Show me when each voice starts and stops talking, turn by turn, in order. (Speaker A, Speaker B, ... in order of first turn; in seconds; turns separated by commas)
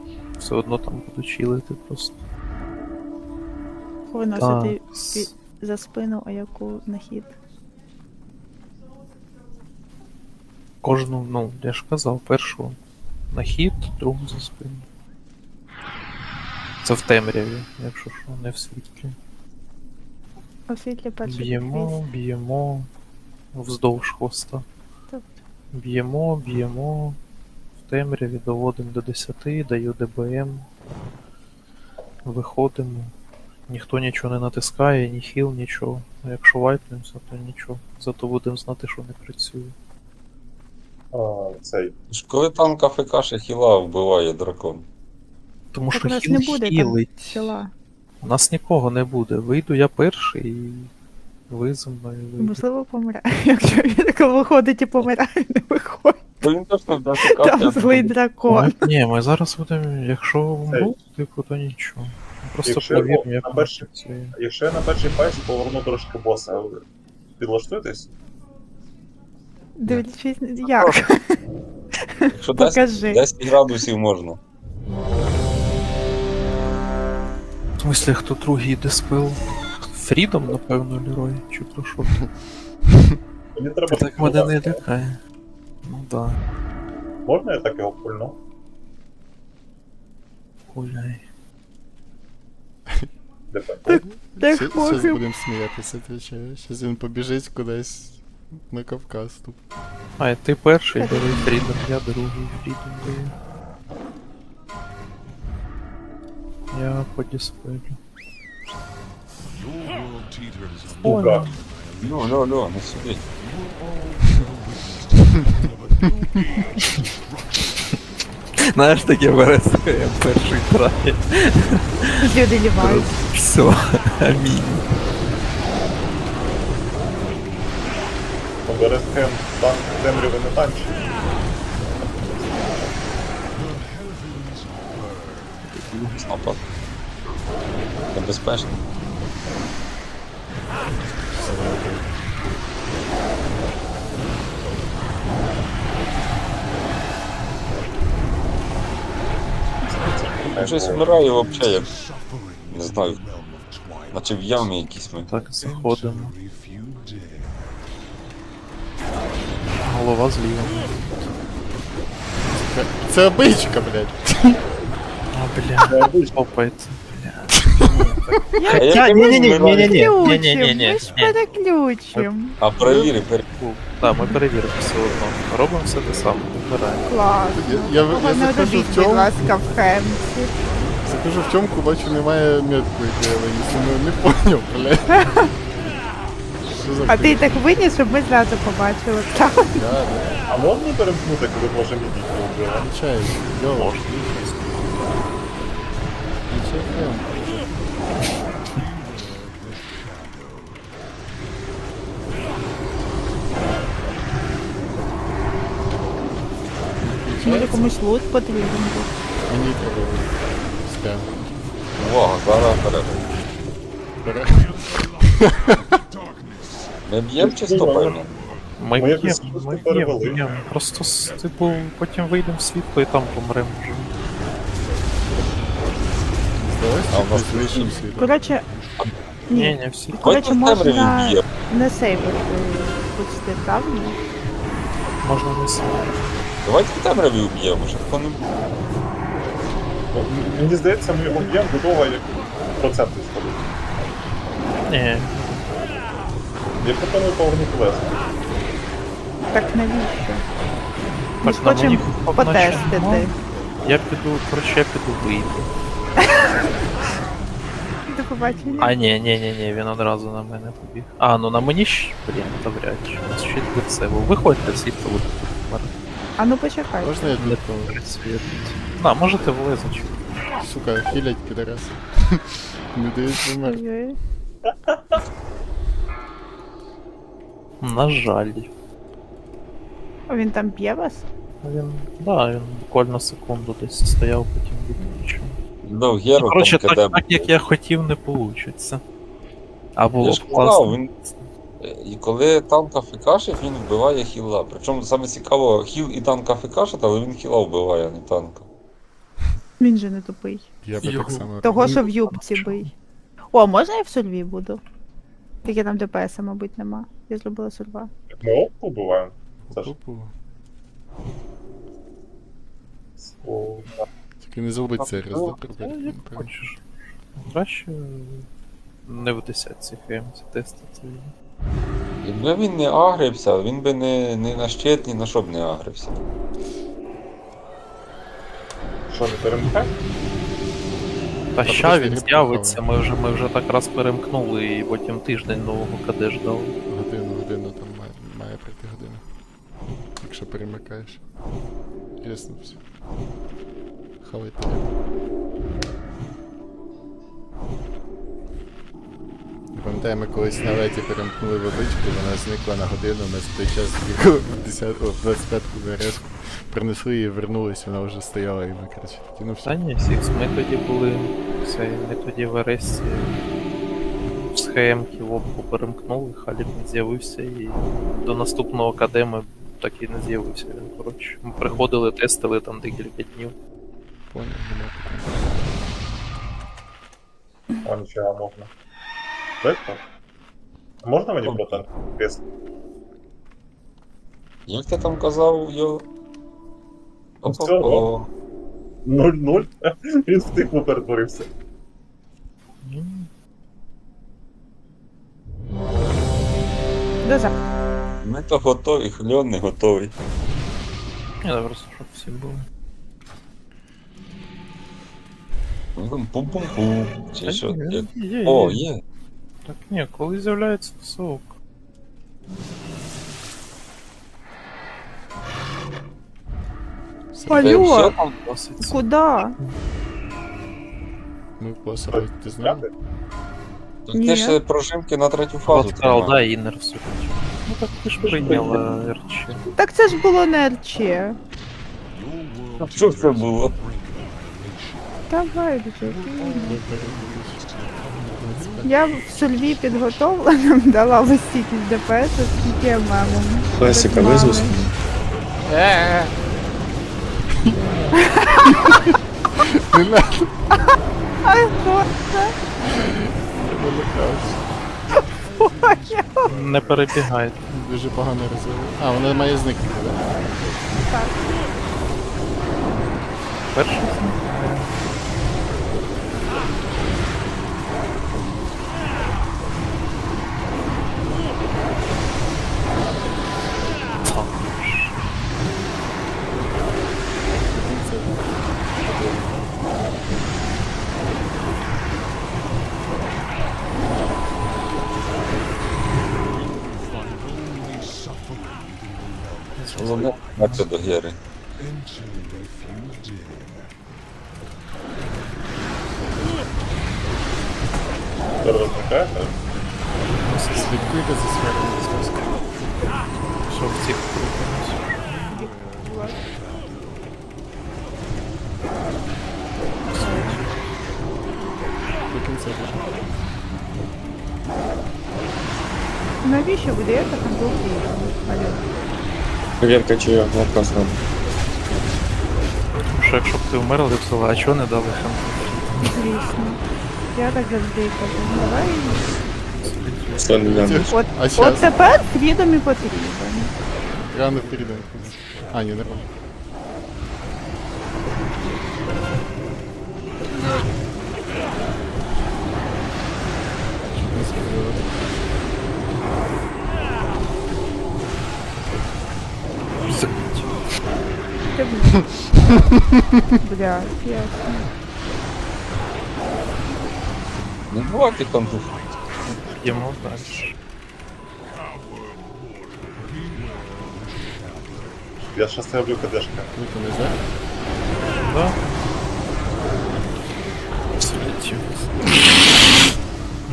Speaker A: 0.4-2.1, Speaker B: 4.1-7.3, Speaker A: 4.3-5.3, Speaker A: 10.8-12.8, Speaker A: 13.3-14.9, Speaker A: 16.8-19.1, Speaker B: 20.7-22.0, Speaker A: 21.2-22.9, Speaker A: 23.5-24.6, Speaker B: 25.1-25.4, Speaker A: 25.7-27.2, Speaker A: 27.8-30.6, Speaker A: 32.2-33.1, Speaker A: 33.7-39.7, Speaker C: 41.1-41.9, Speaker D: 42.1-44.9, Speaker A: 45.7-47.6, Speaker B: 45.9-47.7, Speaker A: 48.2-50.9, Speaker A: 51.5-52.6, Speaker B: 52.4-56.2, Speaker D: 56.4-58.1, Speaker B: 57.3-58.9, Speaker A: 58.5-64.3, Speaker C: 60.7-60.9, Speaker C: 62.6-66.8, Speaker C: 67.4-68.1, Speaker B: 69.8-71.4, Speaker D: 70.6-71.0, Speaker B: 72.2-73.8, Speaker D: 72.3-74.4, Speaker A: 77.8-82.2, Speaker C: 83.5-84.8, Speaker A: 83.9-85.2, Speaker A: 85.8-86.4, Speaker C: 87.2-88.4, Speaker A: 90.7-91.2, Speaker C: 93.5-93.9, Speaker B: 93.9-95.2, Speaker E: 93.9-99.6, Speaker A: 100.2-103.3, Speaker B: 101.0-101.5, Speaker A: 106.7-108.0, Speaker C: 111.0-111.5, Speaker A: 111.0-111.5, Speaker D: 112.0-113.2, Speaker A: 118.6-124.8, Speaker B: 122.2-123.2, Speaker C: 128.7-131.1, Speaker C: 131.8-132.9, Speaker D: 135.8-136.6, Speaker D: 138.1-138.7, Speaker E: 141.3-142.1, Speaker C: 149.8-151.2, Speaker D: 150.6-152.0, Speaker D: 152.7-153.3, Speaker D: 154.1-155.3, Speaker A: 155.3-156.3, Speaker A: 159.8-161.2, Speaker E: 162.5-164.6, Speaker A: 165.3-171.3, Speaker C: 165.9-166.3, Speaker B: 168.6-172.6, Speaker D: 168.7-170.1, Speaker A: 172.1-177.1, Speaker D: 172.6-173.4, Speaker B: 174.1-174.3, Speaker B: 177.0-180.5, Speaker E: 177.5-179.3, Speaker E: 181.0-185.2, Speaker B: 185.1-185.5, Speaker E: 186.6-187.7, Speaker B: 187.1-189.8, Speaker E: 189.7-190.4, Speaker C: 190.5-192.9, Speaker E: 192.8-194.6, Speaker A: 193.7-194.6, Speaker E: 196.5-198.3, Speaker E: 207.0-207.9, Speaker B: 207.4-209.1, Speaker E: 209.5-211.6, Speaker D: 211.9-213.3, Speaker E: 214.2-216.0, Speaker D: 217.0-218.3, Speaker C: 217.4-218.2, Speaker A: 218.8-224.1, Speaker C: 218.9-220.5, Speaker E: 226.5-228.3, Speaker D: 227.1-228.0, Speaker B: 228.2-228.7, Speaker B: 229.5-234.2, Speaker A: 229.5-230.3, Speaker D: 230.2-231.4, Speaker A: 235.2-236.2, Speaker D: 236.6-238.6, Speaker C: 240.1-243.6, Speaker A: 244.8-245.6, Speaker C: 246.8-248.2, Speaker B: 249.5-250.4, Speaker B: 251.4-253.3, Speaker A: 251.4-255.7, Speaker B: 258.1-259.0, Speaker A: 258.8-265.9, Speaker B: 266.4-267.3, Speaker E: 267.0-268.0, Speaker A: 267.4-270.1, Speaker E: 270.6-273.9, Speaker B: 273.6-274.2, Speaker C: 274.7-275.2, Speaker A: 277.8-278.7, Speaker B: 280.3-281.2, Speaker A: 281.6-285.6, Speaker D: 285.8-287.5, Speaker A: 286.4-289.0, Speaker A: 289.9-291.4, Speaker D: 290.2-291.1, Speaker D: 291.8-298.7, Speaker B: 299.8-300.7, Speaker E: 300.8-302.0, Speaker A: 301.0-302.9, Speaker B: 301.6-302.9, Speaker B: 303.5-304.8, Speaker B: 305.6-308.1, Speaker C: 308.3-309.9, Speaker E: 309.6-310.3, Speaker C: 313.2-314.0, Speaker E: 314.4-316.5, Speaker D: 315.0-315.6, Speaker A: 315.8-316.8, Speaker A: 317.4-318.5, Speaker A: 319.0-321.3, Speaker D: 322.2-326.2, Speaker C: 329.1-329.9, Speaker A: 331.5-336.8, Speaker E: 331.6-332.8, Speaker E: 336.9-339.2, Speaker E: 340.2-341.2, Speaker E: 342.2-342.8, Speaker E: 344.2-344.9, Speaker E: 349.7-359.7, Speaker A: 359.6-363.4, Speaker A: 364.2-373.5, Speaker E: 374.3-375.8, Speaker C: 377.8-378.7, Speaker C: 379.6-380.0, Speaker C: 381.0-382.4, Speaker D: 381.4-381.8, Speaker D: 384.7-386.1, Speaker D: 387.4-388.3, Speaker C: 387.4-388.1, Speaker C: 389.0-391.5, Speaker A: 392.8-393.3, Speaker B: 397.2-397.5, Speaker D: 398.2-400.1, Speaker A: 401.4-402.7, Speaker D: 405.9-409.0, Speaker A: 407.5-408.8, Speaker A: 409.6-411.6, Speaker E: 417.3-417.8, Speaker B: 417.5-418.1, Speaker D: 417.6-418.2, Speaker A: 417.6-419.7, Speaker B: 418.8-419.6, Speaker E: 421.6-422.8, Speaker C: 422.1-422.9, Speaker D: 424.1-426.4, Speaker B: 424.1-424.6, Speaker A: 425.6-429.6, Speaker B: 429.7-431.4, Speaker D: 432.8-433.8, Speaker B: 435.3-436.8, Speaker E: 436.6-439.1, Speaker B: 438.8-444.9, Speaker F: 443.7-444.8, Speaker E: 445.6-446.4, Speaker A: 447.8-448.1, Speaker B: 448.1-448.7, Speaker E: 449.9-450.6, Speaker B: 451.4-452.5, Speaker E: 453.0-454.7, Speaker B: 455.2-456.5, Speaker A: 456.4-457.6, Speaker E: 457.7-460.5, Speaker B: 461.1-461.4, Speaker A: 463.7-465.0, Speaker E: 468.3-468.7, Speaker A: 474.2-475.1, Speaker E: 477.4-480.3, Speaker A: 489.8-490.8, Speaker D: 489.9-491.4, Speaker C: 498.6-499.6, Speaker A: 500.4-501.2, Speaker E: 500.7-503.4, Speaker A: 503.6-505.1, Speaker B: 505.5-506.5, Speaker A: 510.1-510.7, Speaker B: 510.1-510.6, Speaker E: 512.3-513.5, Speaker B: 516.4-518.8, Speaker F: 519.8-521.2, Speaker A: 523.0-526.1, Speaker B: 526.0-526.8, Speaker B: 527.3-529.3, Speaker A: 529.8-531.0, Speaker F: 530.4-531.0, Speaker E: 530.7-532.0, Speaker B: 531.1-533.7, Speaker E: 534.3-536.3, Speaker E: 544.0-545.7, Speaker A: 550.0-550.8, Speaker B: 551.7-552.2, Speaker B: 553.6-554.9, Speaker D: 557.9-558.9, Speaker A: 559.5-560.7, Speaker C: 565.4-566.7, Speaker E: 566.7-567.4, Speaker A: 568.4-568.8, Speaker A: 571.2-572.6